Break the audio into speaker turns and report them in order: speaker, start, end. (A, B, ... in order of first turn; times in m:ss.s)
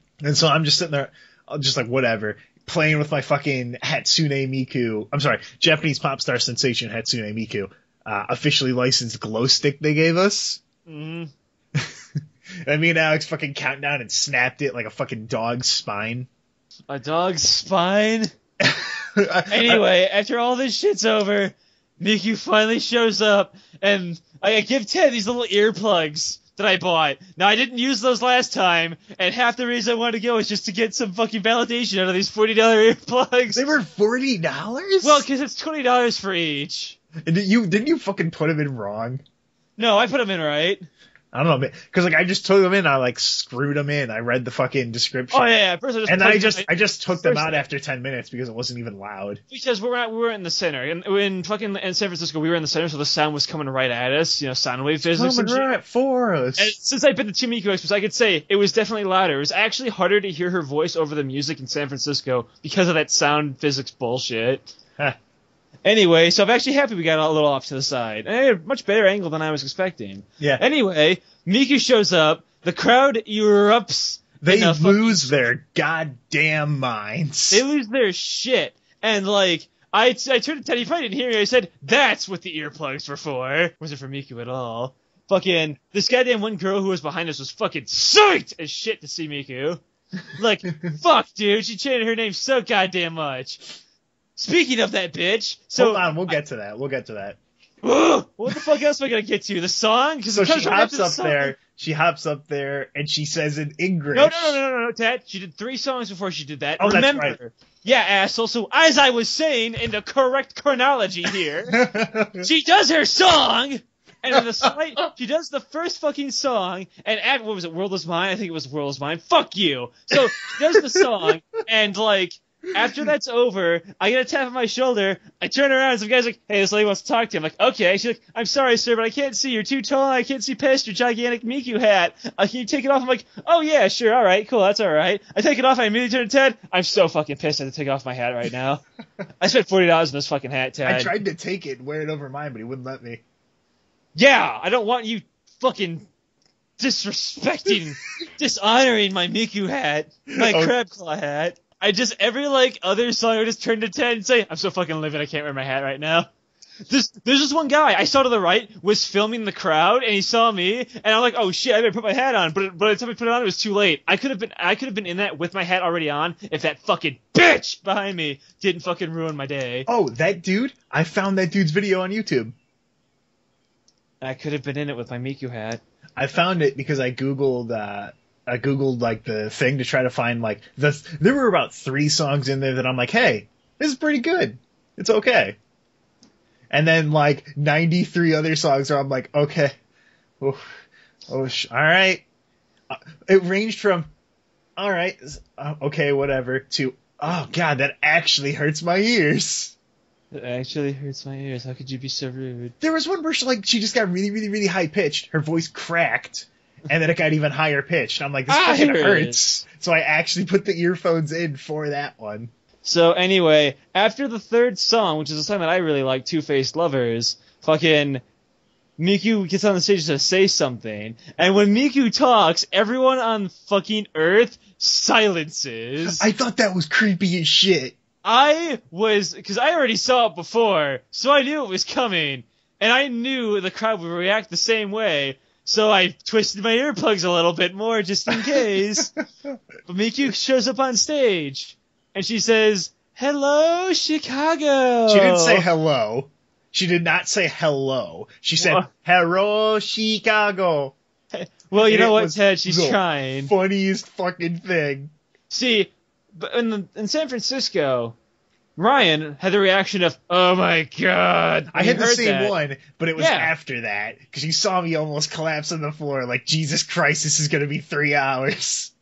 0:00.2-0:10.6 A
0:10.8-0:11.3 B
0:12.6-0:16.3 A
0:16.9-0:18.3 B
0:18.6-0:19.8 A
0:19.5-0:33.7 B
0:33.5-0:35.3 A
0:35.0-0:37.0 B
0:37.2-0:39.2 A
0:39.8-0:40.9 B
0:41.3-0:45.5 A
0:45.3-0:47.6 B
0:46.1-0:49.4 A
0:49.5-0:55.7 B
0:55.1-0:56.7 A
0:56.6-1:04.7 B
1:05.8-1:15.4 B
1:14.4-1:17.6 A
1:17.5-1:29.8 B
1:30.4-1:33.6 B
1:34.4-1:36.3 B
1:35.8-1:37.4 A
1:37.8-1:41.5 B
1:40.3-1:44.6 A
1:44.1-1:51.8 B
1:46.8-1:47.4 A
1:51.7-1:52.5 A
1:52.4-2:18.8 B
1:54.6-1:55.0 A
2:00.2-2:01.3 A
2:19.4-2:21.1 B
2:20.8-2:23.2 A
2:24.1-2:26.1 B
2:26.8-2:36.3 B
2:30.3-2:30.7 A
2:36.9-2:49.8 B
2:49.9-2:52.5 A
2:54.2-2:55.8 B
2:56.2-3:05.6 A
3:06.7-3:09.7 A
3:11.3-3:12.2 A
3:12.9-3:14.1 A
3:14.8-3:19.7 A
3:20.3-3:22.7 B
3:22.8-3:32.5 A
3:28.5-3:29.4 B
3:32.8-3:38.2 B
3:39.0-3:46.3 B
3:46.0-3:48.0 A
3:48.2-3:59.1 B
3:59.9-4:05.6 B
4:05.1-4:11.0 A
4:08.6-4:08.9 B
4:11.3-4:13.5 B
4:11.8-4:15.1 A
4:15.5-4:18.1 B
4:18.8-4:22.5 B
4:21.7-4:28.9 A
4:23.2-4:23.5 B